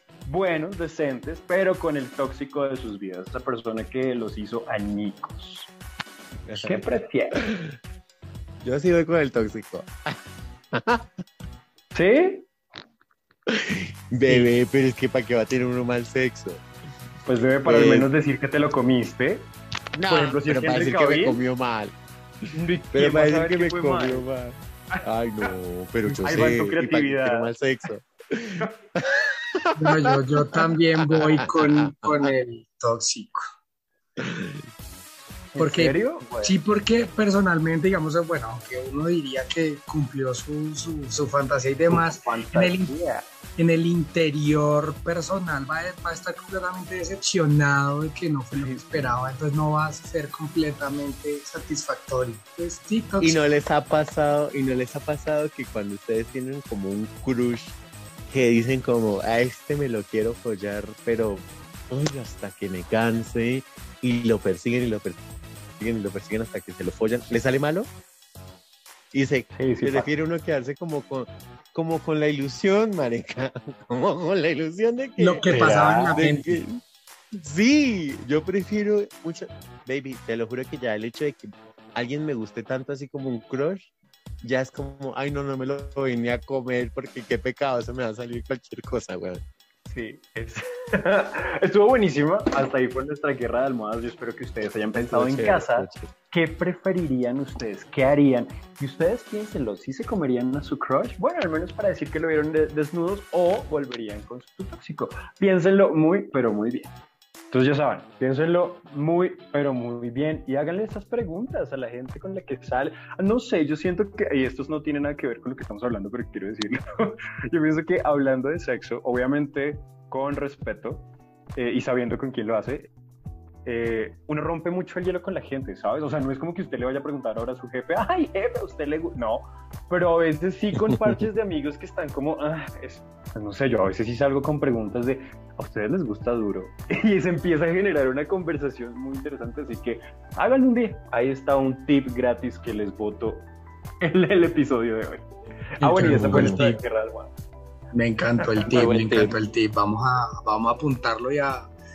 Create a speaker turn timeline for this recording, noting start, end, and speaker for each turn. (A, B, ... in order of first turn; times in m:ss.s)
0:00.2-0:05.7 A
0:06.4-0:07.8 B
0:06.6-0:07.4 A
0:08.6-0:10.2 B
0:10.7-0:11.2 B
0:11.9-0:12.5 A
0:13.5-0:16.6 B
0:17.2-0:19.5 A
0:17.6-0:18.1 B
0:19.9-0:22.0 B
0:20.0-0:21.4 A
0:22.5-0:24.2 A
0:22.9-0:32.2 B
0:26.1-0:27.5 A
0:29.7-0:33.4 C
0:34.2-0:34.6 B
0:35.5-0:36.6 A
0:35.6-0:42.9 C
0:41.9-0:43.3 A
0:43.6-0:53.4 C
0:48.5-0:49.1 A
0:53.2-1:05.2 B
1:05.8-1:07.9 B
1:09.1-1:16.8 B
1:09.6-1:10.1 A
1:15.2-1:16.6 C
1:15.5-1:16.2 A
1:17.3-1:23.8 B
1:24.4-1:29.4 B
1:29.8-1:46.9 A
1:34.9-1:36.1 B
1:47.5-2:02.9 A
2:03.6-2:23.5 A
2:24.0-2:27.3 A
2:25.8-2:26.8 C
2:26.1-2:26.6 B
2:27.9-2:31.7 C
2:28.7-2:29.4 B